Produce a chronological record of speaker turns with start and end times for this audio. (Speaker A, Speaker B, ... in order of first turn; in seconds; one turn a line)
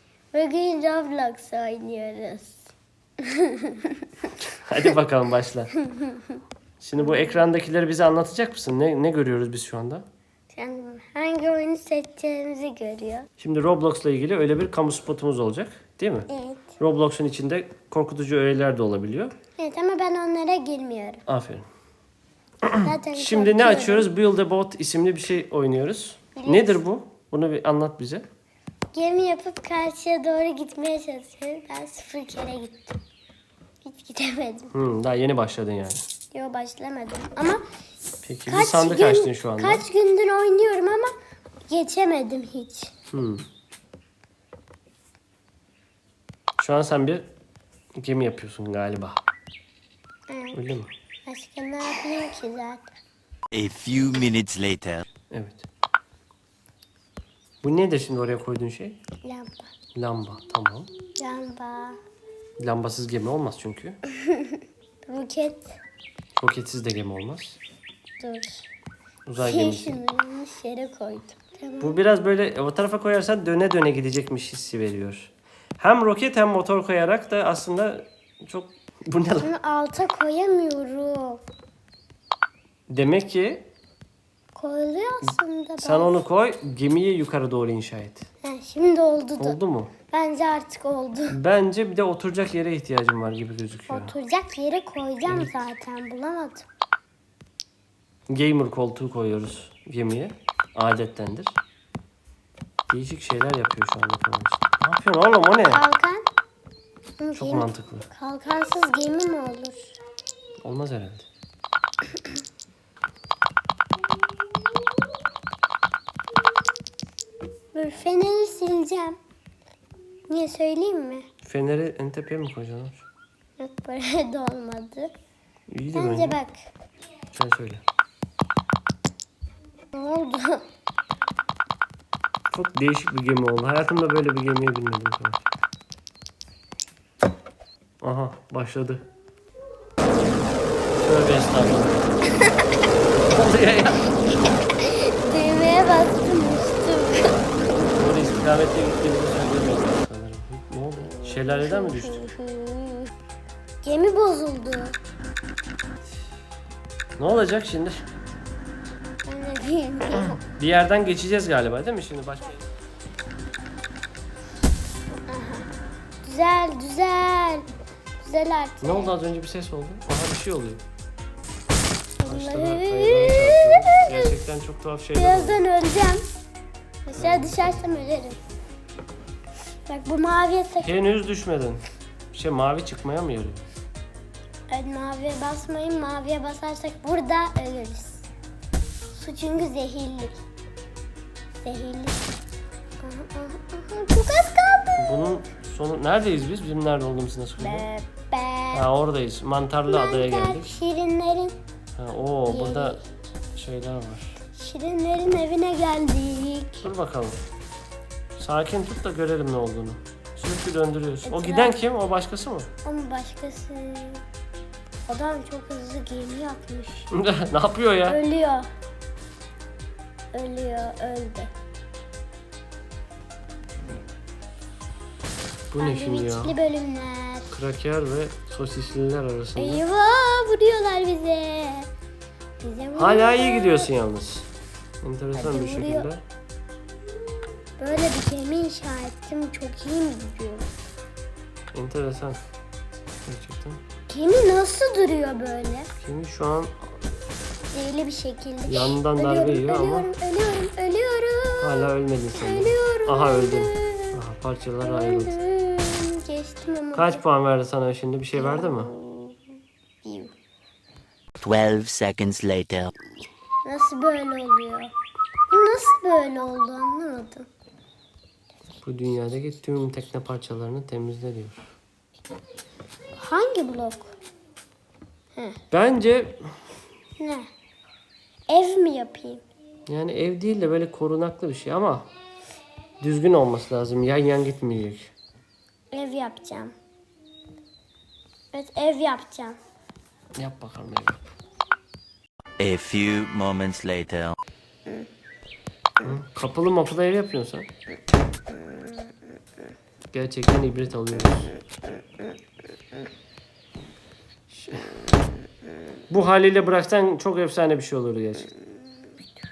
Speaker A: 0.3-2.6
Speaker A: 3.2-4.3
Speaker B: 4.6-5.7
Speaker A: 5.8-6.4
Speaker B: 6.8-10.1
Speaker A: 7.0-7.4
Speaker A: 10.5-13.3
Speaker B: 13.4-16.3
Speaker A: 16.3-16.7
Speaker B: 16.8-19.3
Speaker A: 19.6-21.2
Speaker B: 21.3-21.7
Speaker B: 22.6-28.3
Speaker A: 22.8-24.1
Speaker A: 26.4-26.8
Speaker A: 28.9-33.0
Speaker A: 33.8-34.7
Speaker B: 34.7-36.0
Speaker A: 36.3-37.6
Speaker B: 38.2-39.8
Speaker A: 38.5-41.1
Speaker A: 41.7-42.9
Speaker B: 43.1-43.5
Speaker B: 46.6-47.3
Speaker B: 48.0-49.2
Speaker A: 50.3-50.6
Speaker B: 50.5-50.9
Speaker A: 51.3-52.9
Speaker C: 53.5-55.1
Speaker B: 55.3-55.6
Speaker B: 57.6-59.0
Speaker A: 59.2-59.7
Speaker B: 60.0-60.9
Speaker A: 61.2-62.0
Speaker B: 62.6-64.0
Speaker A: 64.3-65.8
Speaker B: 66.4-67.6
Speaker A: 68.2-68.7
Speaker B: 69.3-70.0
Speaker A: 69.4-72.0
Speaker B: 71.8-79.5
Speaker A: 79.4-81.4
Speaker B: 82.9-83.7
Speaker A: 84.5-86.2
Speaker B: 85.3-88.3
Speaker A: 88.4-89.6
Speaker B: 89.4-89.9
Speaker A: 90.1-91.4
Speaker B: 91.3-94.2
Speaker A: 93.9-96.7
Speaker B: 95.3-95.5
Speaker B: 98.3-101.6
Speaker B: 102.9-105.8
Speaker A: 105.7-106.2
Speaker A: 107.2-110.0
Speaker B: 107.3-108.1
Speaker B: 110.6-111.3
Speaker A: 117.7-119.2
Speaker A: 120.3-121.3
Speaker B: 121.4-123.1
Speaker A: 123.6-125.1
Speaker B: 125.7-126.4
Speaker A: 125.9-126.5
Speaker B: 127.3-127.8
Speaker A: 129.9-130.6
Speaker B: 132.5-135.4
Speaker B: 138.0-139.1
Speaker B: 140.9-142.1
Speaker B: 143.3-144.2
Speaker A: 144.8-147.4
Speaker B: 147.7-152.2
Speaker A: 151.0-153.1
Speaker A: 153.8-155.0
Speaker B: 157.2-158.0
Speaker A: 159.2-160.4
Speaker B: 160.1-162.6
Speaker A: 165.3-165.7
Speaker A: 166.2-167.7
Speaker A: 168.2-169.1
Speaker B: 168.8-170.8
Speaker A: 172.2-174.3
Speaker B: 172.3-175.7
Speaker A: 175.2-176.2
Speaker A: 177.1-178.4
Speaker B: 177.2-177.7
Speaker A: 179.9-181.0
Speaker B: 180.8-183.6
Speaker A: 184.7-188.3
Speaker A: 189.1-190.4
Speaker A: 191.6-192.4
Speaker A: 193.0-195.0
Speaker B: 195.0-197.9
Speaker A: 197.6-198.9
Speaker B: 198.7-200.7
Speaker A: 199.9-201.6
Speaker B: 202.0-203.0
Speaker A: 202.5-203.0
Speaker B: 203.6-204.4
Speaker A: 204.5-206.9
Speaker B: 206.8-207.4
Speaker B: 208.4-212.7
Speaker A: 211.2-211.8
Speaker A: 212.8-214.2
Speaker A: 215.1-217.1
Speaker B: 217.1-218.2
Speaker A: 218.1-218.7
Speaker A: 220.3-221.5
Speaker B: 225.7-226.6
Speaker A: 225.8-227.5
Speaker B: 227.5-229.8
Speaker A: 229.6-231.9
Speaker A: 232.6-233.9
Speaker B: 233.0-234.5
Speaker B: 235.0-236.2
Speaker A: 235.3-236.1
Speaker A: 237.8-240.7
Speaker B: 241.7-242.4
Speaker B: 243.3-243.8
Speaker A: 244.1-245.9
Speaker B: 246.0-246.8
Speaker A: 247.7-254.2
Speaker B: 248.7-250.1
Speaker B: 251.6-255.4
Speaker A: 254.8-257.2
Speaker B: 256.9-258.9
Speaker A: 258.3-259.4
Speaker A: 260.0-260.3
Speaker C: 261.4-262.9
Speaker A: 263.6-264.9
Speaker A: 265.5-267.5
Speaker B: 268.8-271.6
Speaker A: 273.2-274.1
Speaker B: 275.7-276.6
Speaker A: 277.2-277.5
Speaker A: 278.5-279.4
Speaker B: 279.9-282.1
Speaker B: 283.0-285.1
Speaker A: 285.9-286.8
Speaker A: 288.5-289.6
Speaker B: 290.4-291.2
Speaker C: 292.6-294.4
Speaker B: 296.0-297.7
Speaker B: 300.1-301.5
Speaker B: 306.1-308.5